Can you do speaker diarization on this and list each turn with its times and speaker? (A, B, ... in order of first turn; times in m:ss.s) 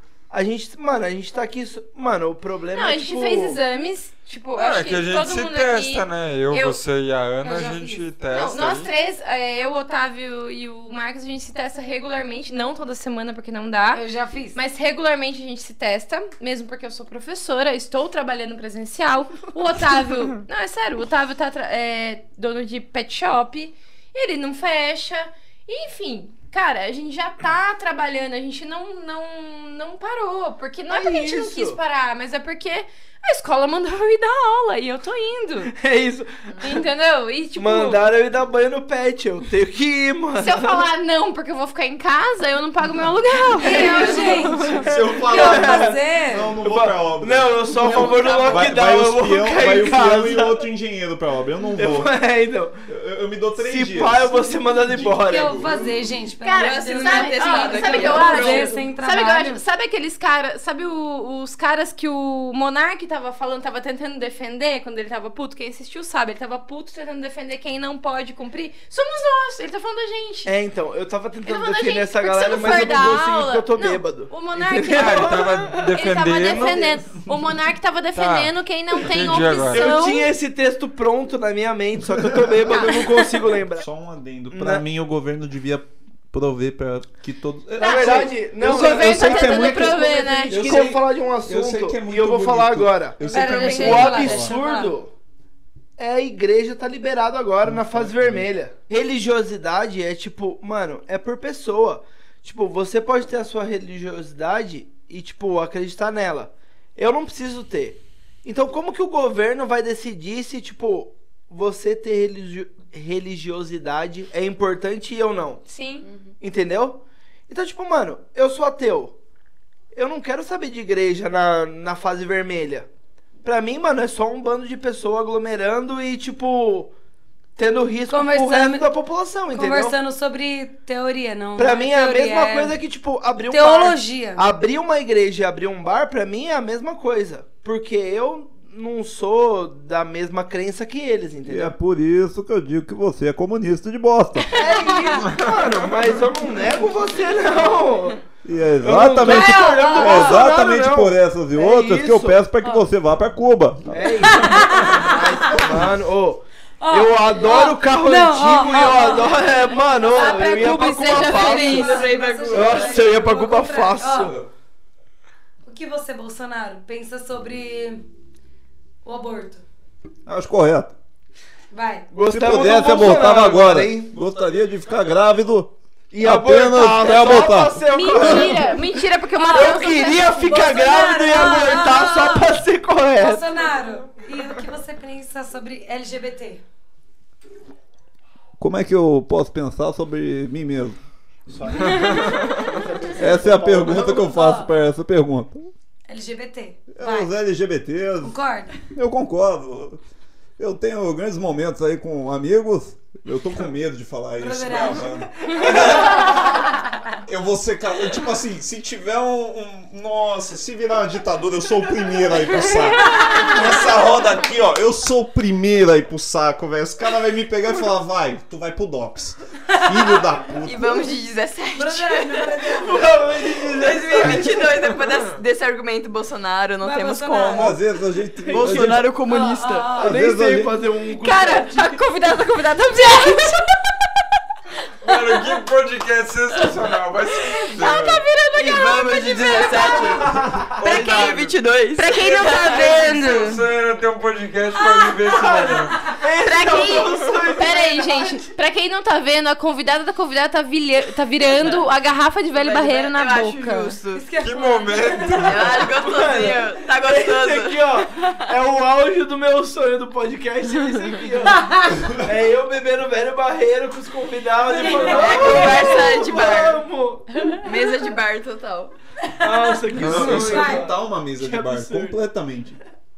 0:00.3-0:03.6 A
0:02.7-0:06.8 B
0:04.6-0:08.9 C
0:07.4-0:08.1 D
0:08.3-0:14.0 B
0:13.9-0:14.6 D
0:14.5-0:35.7 B
0:30.9-0:31.8 A
0:35.7-0:36.5 A
0:36.6-0:38.0 B
0:37.6-0:40.8 A
0:40.4-0:44.9 B
0:43.6-0:44.6 E
0:43.6-0:46.5 D
0:44.7-0:52.1 F
0:44.9-0:46.0 A
0:46.6-0:50.6 A
0:47.7-0:48.8 B
0:51.8-0:52.7 A
0:52.9-0:54.3 F
0:53.6-0:55.8 A
0:54.9-0:55.7 F
0:55.0-0:59.6 D
0:56.4-1:10.5 B
0:56.6-0:58.8 E
1:10.4-1:15.9 A
1:11.4-1:20.3 B
1:14.9-1:17.0 C
1:18.1-1:19.9 C
1:19.6-1:23.9 A
1:22.6-1:34.5 F
1:24.5-1:24.8 A
1:27.8-1:30.9 B
1:27.8-1:35.1 A
1:33.2-1:34.9 D
1:33.3-1:34.0 B
1:36.0-1:55.6 A
1:37.6-1:38.4 F
1:55.7-1:56.0 B
1:56.4-1:59.1 A
1:59.9-2:02.9 A
2:03.4-2:06.9 A
2:07.6-2:10.0 A
2:08.1-2:08.9 D
2:09.5-2:12.8 D
2:11.6-2:21.7 A
2:13.5-2:14.4 D
2:21.4-2:24.5 F
2:24.5-2:28.2 A
2:24.6-2:24.9 B
2:24.6-2:25.2 D
2:28.4-2:35.0 F
2:28.8-2:32.4 A
2:29.2-2:30.4 D
2:33.9-2:44.4 A
2:34.2-2:35.7 D
2:36.8-2:39.7 D
2:37.4-2:37.8 B
2:39.8-2:42.9 B
2:41.0-2:44.3 D
2:41.1-2:43.0 E
2:45.6-2:48.0 D
2:49.0-2:49.6 D
2:50.2-2:50.9 F
2:51.7-2:52.1 D
2:52.1-2:54.1 A
2:52.3-2:58.5 F
2:56.1-2:58.8 A
2:57.9-3:00.3 B
2:59.5-3:03.4 A
3:00.3-3:02.3 D
3:03.2-3:06.6 D
3:08.6-3:11.0 F
3:11.5-3:14.3 A
3:13.2-3:15.7 F
3:14.3-3:14.7 D
3:16.1-3:17.3 D
3:16.9-3:18.4 F
3:18.2-3:18.8 D
3:18.9-3:20.0 F
3:20.6-3:26.6 F
3:24.4-3:26.0 D
3:27.2-3:41.1 F
3:40.6-3:42.6 E
3:41.7-3:43.2 D
3:42.7-3:44.7 A
3:43.6-3:47.8 E
3:46.8-3:47.8 D
3:47.4-3:49.2 F
3:48.5-3:50.0 E
3:48.5-3:48.9 A
3:48.5-3:50.1 D
3:50.0-3:50.8 F
3:50.0-3:52.0 A
3:51.1-3:53.7 B
3:55.0-3:58.2 C
3:57.7-4:00.3 B
3:58.5-4:03.0 E
4:00.2-4:00.8 A
4:00.8-4:01.6 C
4:02.0-4:03.6 B
4:02.4-4:06.0 C
4:05.2-4:08.5 A
4:06.4-4:14.0 B
4:06.7-4:07.1 E
4:12.5-4:14.3 E
4:14.1-4:15.8 D
4:14.4-4:16.0 C
4:15.4-4:18.4 E
4:16.0-4:27.3 A
4:21.5-4:22.0 D
4:24.7-4:26.0 D
4:24.8-4:26.8 E
4:27.6-4:28.9 E
4:29.3-4:30.9 D
4:29.4-4:32.2 A
4:30.0-4:30.6 C
4:30.0-4:32.8 F